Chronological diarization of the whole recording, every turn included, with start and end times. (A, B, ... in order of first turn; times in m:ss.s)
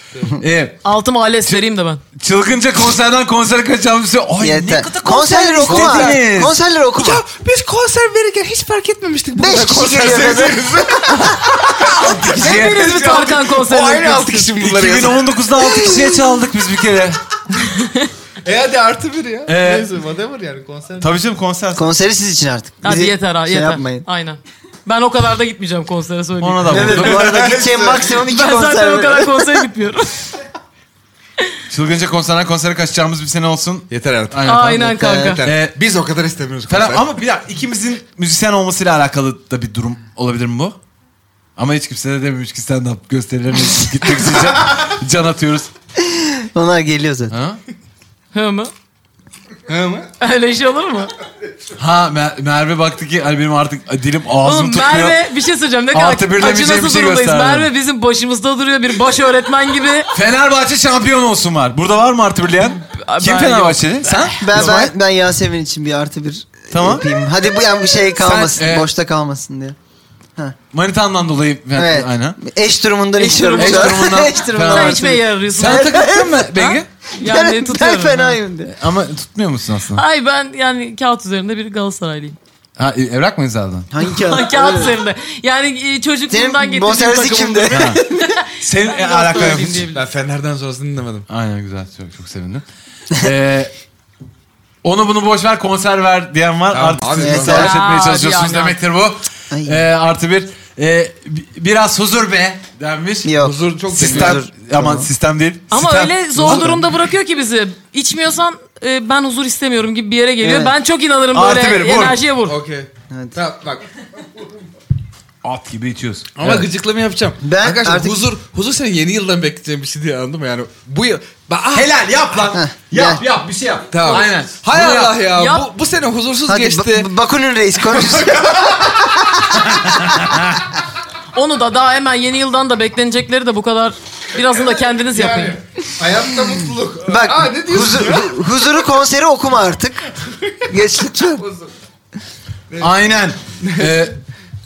0:00.4-0:00.8 A
0:00.8-0:02.0 B
0:02.2-0:06.6 A
0:04.4-0:07.2 C
0:05.7-0:06.2 D
0:07.0-0:15.4 D
0:09.4-0:11.5 C
0:12.0-0:13.0 A
0:12.2-0:14.5 B
0:14.6-0:17.2 A
0:15.6-0:16.2 C
0:17.6-0:18.1 B
0:18.4-0:21.1 D
0:19.5-0:19.9 A
0:21.0-0:21.9 A
0:21.8-0:24.0 C
0:22.8-0:27.1 B
0:26.4-0:27.5 A
0:26.7-0:29.5 C
0:26.9-0:28.1 D
0:28.3-0:30.3 B
0:31.7-0:34.9 A
0:33.9-0:37.1 D
0:34.4-0:35.4 B
0:34.8-0:35.4 C
0:35.4-0:35.7 A
0:36.7-0:40.8 A
0:41.6-0:45.7 A
0:46.0-0:47.3 C
0:47.3-0:47.6 A
0:48.3-0:48.7 B
0:49.7-0:50.1 D
0:50.2-0:51.1 B
0:51.8-0:55.2 A
0:54.4-1:00.1 B
0:55.9-0:57.7 A
1:00.1-1:04.9 A
1:02.9-1:04.7 B
1:04.4-1:09.8 C
1:06.7-1:07.1 A
1:08.2-1:08.9 A
1:10.7-1:12.4 A
1:11.8-1:16.6 C
1:13.2-1:16.0 B
1:13.6-1:16.9 A
1:16.6-1:18.4 B
1:17.2-1:18.7 C
1:18.7-1:20.0 A
1:19.9-1:22.4 B
1:22.8-1:23.9 A
1:23.9-1:25.0 C
1:24.0-1:30.0 B
1:26.3-1:28.2 C
1:27.7-1:28.0 A
1:28.6-1:29.9 A
1:29.9-1:31.3 D
1:31.3-1:33.7 A
1:34.8-1:43.3 A
1:36.7-1:37.7 D
1:37.2-1:37.7 C
1:37.5-1:38.8 B
1:39.5-1:39.9 C
1:43.2-1:45.1 C
1:43.4-1:44.4 D
1:43.9-1:46.7 A
1:45.7-1:52.6 B
1:46.4-1:46.8 C
1:50.4-1:50.7 C
1:51.3-1:52.2 A
1:52.5-1:53.8 D
1:53.1-1:53.4 C
1:55.4-1:56.7 A
1:56.4-2:01.9 D
1:57.4-1:58.2 C
2:01.7-2:05.2 A
2:02.5-2:03.2 C
2:03.9-2:07.1 D
2:05.4-2:05.7 B
2:06.5-2:10.1 C
2:07.9-2:09.0 D
2:09.8-2:10.6 A
2:11.3-2:15.6 B
2:15.1-2:18.3 D
2:17.1-2:20.1 C
2:20.7-2:21.4 C
2:21.4-2:21.7 D
2:22.8-2:24.2 A
2:23.6-2:24.0 D